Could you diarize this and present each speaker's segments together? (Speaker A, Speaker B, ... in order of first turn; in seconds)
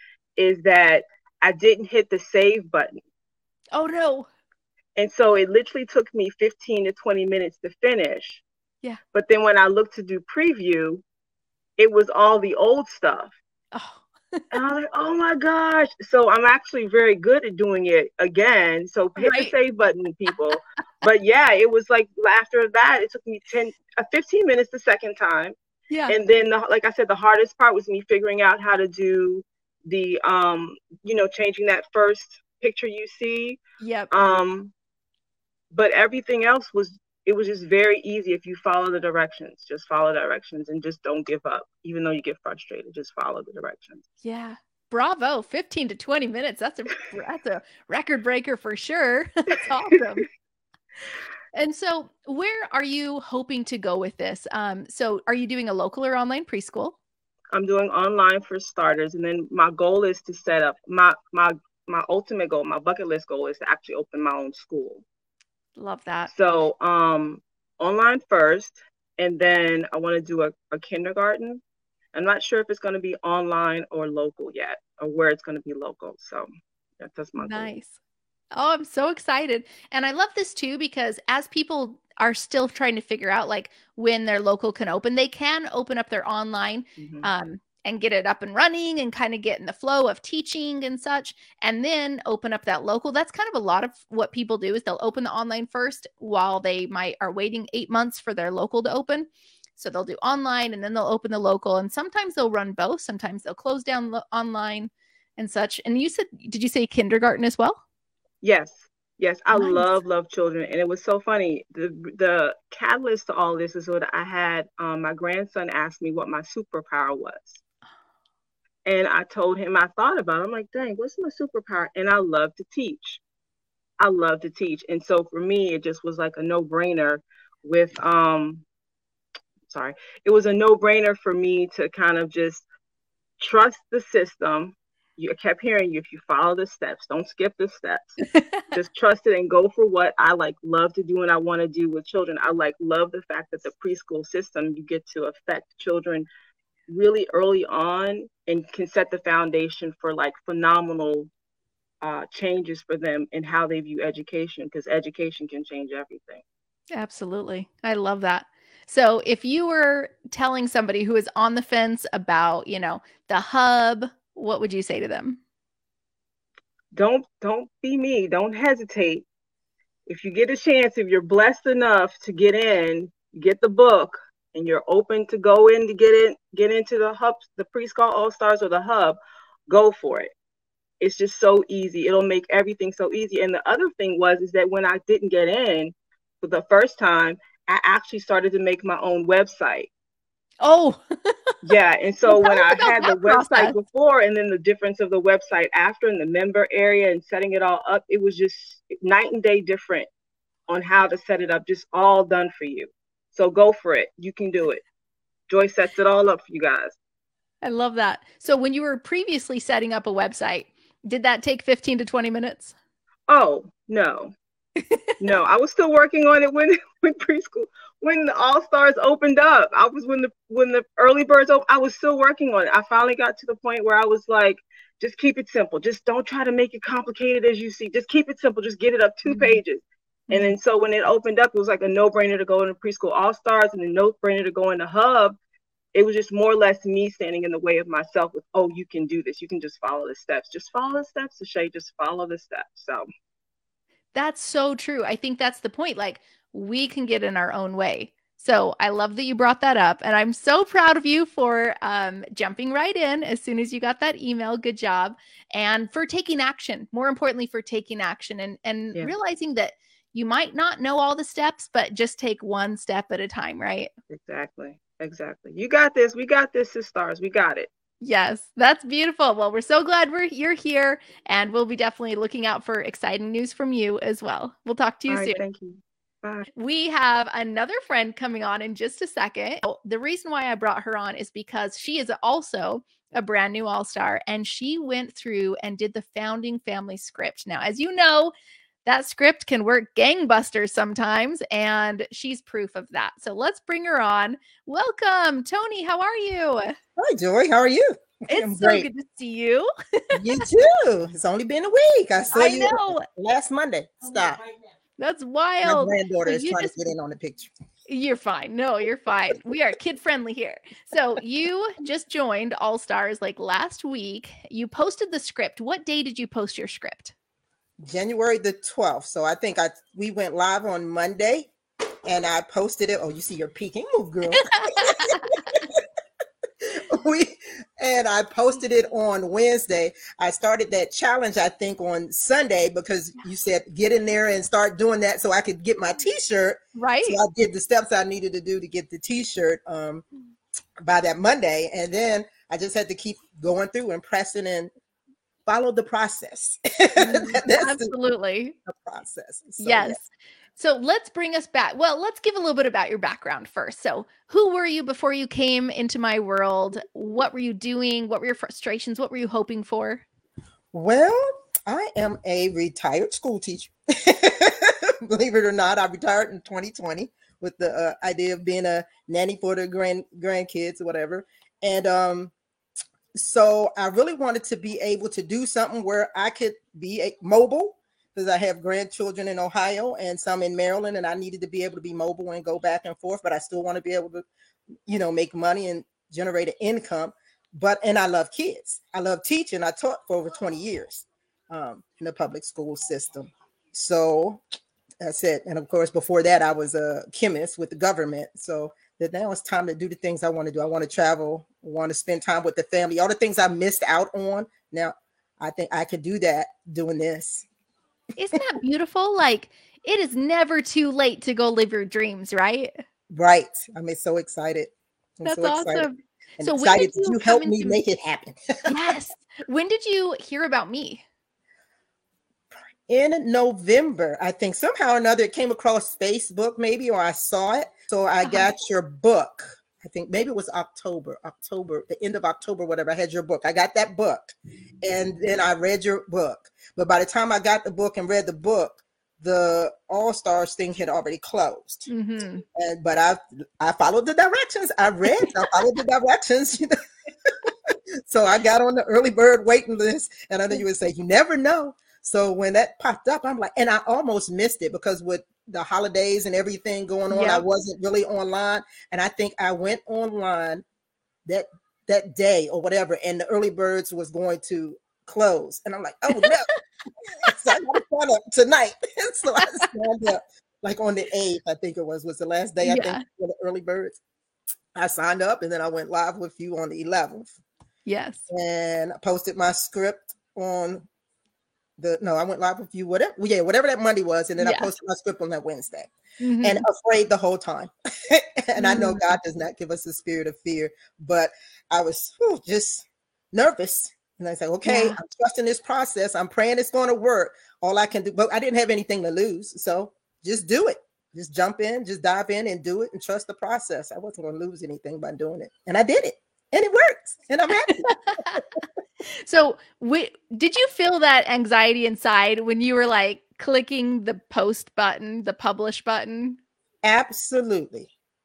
Speaker A: 0.4-2.9, 5.0-8.4, 9.1-11.0, 11.8-13.3, 14.5-25.5, 26.1-33.6, 34.1-34.7, 35.7-44.0, 57.5-65.0, 66.3-71.6, 72.1-76.5, 77.0-77.7, 87.0-87.3, 108.4-117.6, 118.8-123.2, 124.0-128.6, 129.7-132.7, 133.4-138.2, 138.7-146.3, 146.9-151.3, 152.0-156.4, 166.9-169.2, 170.1-180.3, 181.0-189.9, 191.6-200.1, 200.7-204.8, 205.5-206.9, 213.3-214.3, 215.2-235.4, 235.9-243.1, 264.1-267.7, 275.1-276.5
Speaker B: 3.7-4.3, 13.7-14.4, 19.2-19.5, 25.9-26.2, 33.8-34.1, 44.2-50.3, 51.5-57.0, 65.8-66.3, 77.4-77.9, 78.5-107.8, 109.5-110.0, 156.9-165.4, 190.6-191.3, 192.3-193.8, 207.6-212.7, 229.2-229.6, 230.3-230.5, 244.1-263.9, 268.0-275.4, 276.5-288.3, 288.8-296.8, 298.3-300.4, 302.3-303.1, 305.0-306.8, 307.9-317.1, 324.5-325.3, 336.7-337.2, 347.0-348.6, 349.6-350.1, 350.6-360.0, 408.1-412.7, 415.2-417.8, 418.7-421.0, 428.2-428.5, 441.9-442.4, 457.1-457.4, 472.6-473.0, 477.9-478.3, 484.4-484.7, 486.2-486.6, 488.6-489.0, 494.6-495.0, 507.8-508.4, 509.2-516.4
Speaker C: 297.0-298.9, 300.1-304.4, 305.6-307.5, 317.8-321.5, 322.1-325.8, 326.6-340.0, 340.8-344.7, 345.4-347.9, 348.7-350.0, 360.7-372.3, 373.1-384.2, 384.9-394.4, 395.0-407.4, 413.1-415.9, 416.4-418.9, 422.9-441.9, 442.5-446.7, 448.1-460.6, 461.2-466.5, 467.2-474.0, 474.7-477.4, 478.3-480.8, 481.8-485.9, 486.4-507.9, 516.8-517.9